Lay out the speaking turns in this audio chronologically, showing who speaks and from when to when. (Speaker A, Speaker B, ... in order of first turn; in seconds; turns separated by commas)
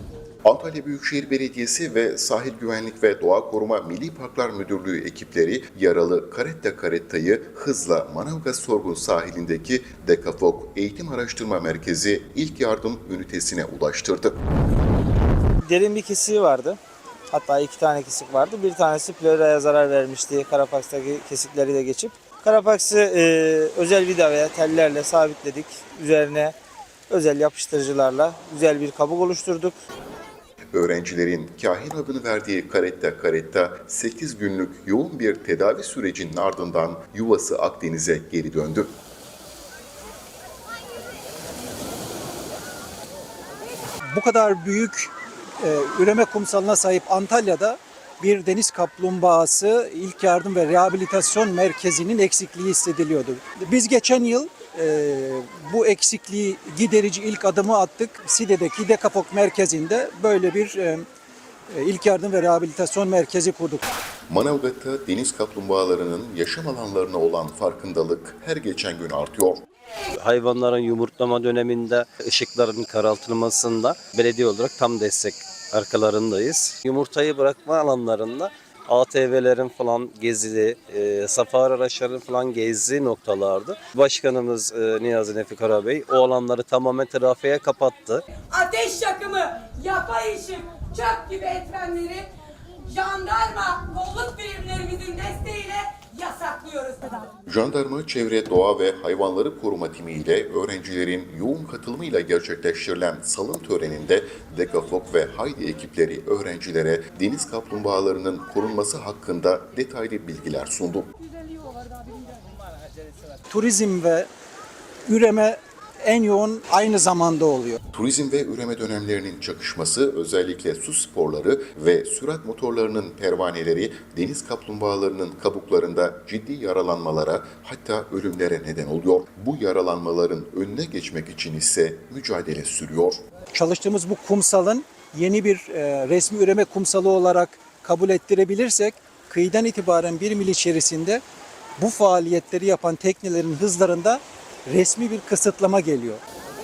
Speaker A: 0.4-14.4, Speaker B: 15.6-16.8, Speaker B: 17.3-26.6, Speaker B: 27.1-29.8, Speaker A: 30.7-38.9, Speaker C: 44.1-61.0, Speaker C: 61.7-63.9, Speaker A: 64.3-69.6, Speaker D: 70.2-88.2, Speaker E: 88.5-92.3, Speaker E: 92.9-97.3, Speaker A: 97.5-111.1, Speaker C: 113.5-114.3, Speaker C: 115.1-117.8, Speaker A: 117.9-133.2, Speaker C: 133.5-141.2, Speaker C: 141.8-146.2